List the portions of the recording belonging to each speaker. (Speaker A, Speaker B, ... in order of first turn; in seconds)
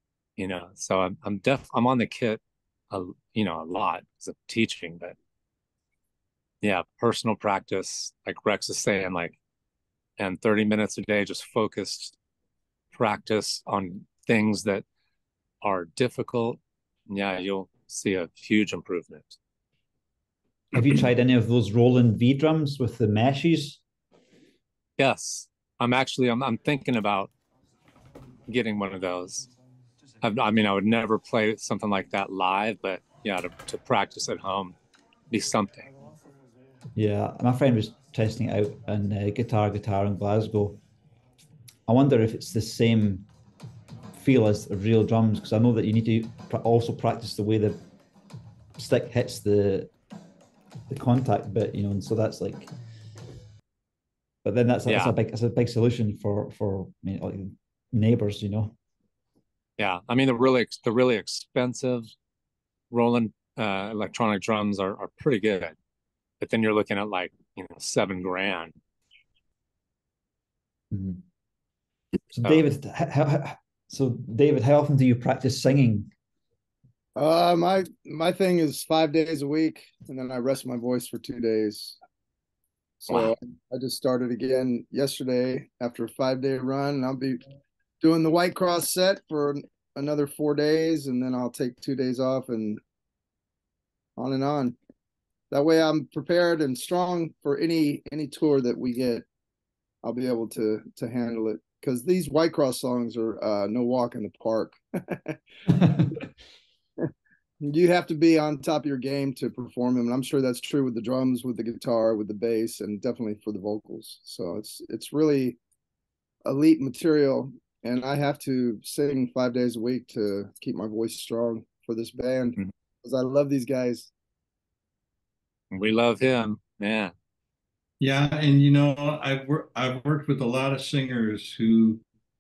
Speaker A: 0.4-5.2, 6.6-9.4, 10.2-12.2, 12.9-14.8, 15.6-19.4, 25.0-27.3, 28.5-29.5, 30.2-34.8, 35.3-35.9, 54.9-55.1, 59.8-62.1, 62.9-65.8, 66.4-68.7, 125.7-127.1
Speaker B: 20.7-23.8, 37.0-40.8, 41.9-43.3, 44.1-47.8, 48.8-49.9, 50.9-52.7, 54.4-58.8, 70.9-71.2, 72.3-76.1
Speaker C: 77.2-82.0, 83.0-87.4, 88.0-92.8, 94.2-94.8, 95.5-99.2, 100.0-106.1, 107.6-115.6, 116.5-124.1
Speaker D: 128.0-132.0